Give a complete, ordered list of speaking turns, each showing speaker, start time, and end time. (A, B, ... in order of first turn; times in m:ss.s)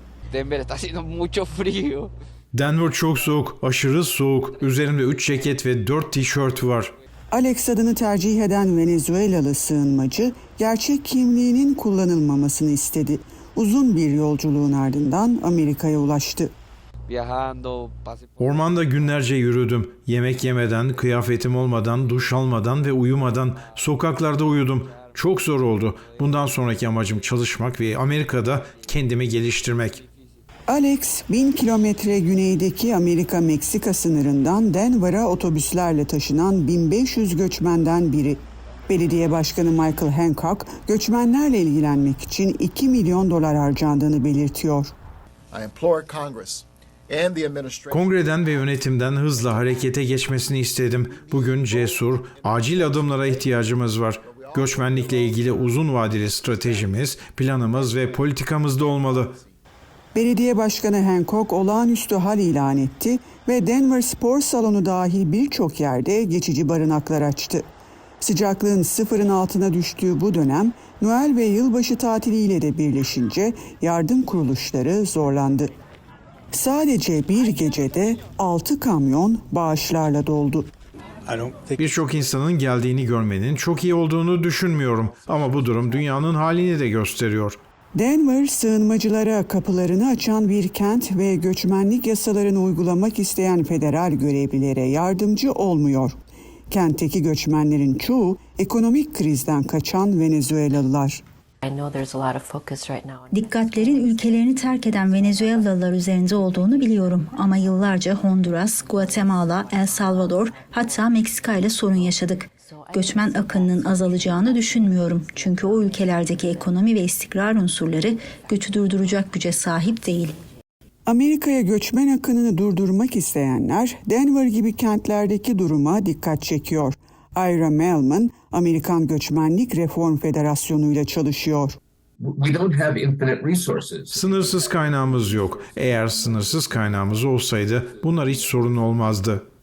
0:00.3-0:02.1 A
0:02.5-0:06.9 B
0:07.3-0:16.5 C
0:17.1-0:18.4 A
0:18.4-0:30.0 B
0:30.7-0:44.9 C
0:45.5-0:48.1 D
0:47.9-0:59.4 B
0:54.3-0:55.5 D
1:00.1-1:07.7 C
1:08.2-1:15.7 C
1:16.5-1:20.7 C
1:21.5-1:27.6 B
1:28.0-1:36.2 C
1:36.7-1:41.2 C
1:41.6-1:45.8 E
1:43.3-2:00.4 F
1:46.6-1:47.0 E
1:48.9-1:51.3 E
1:51.8-1:56.5 E
2:01.1-2:11.8 C
2:12.2-2:14.3 G
2:14.1-2:19.4 B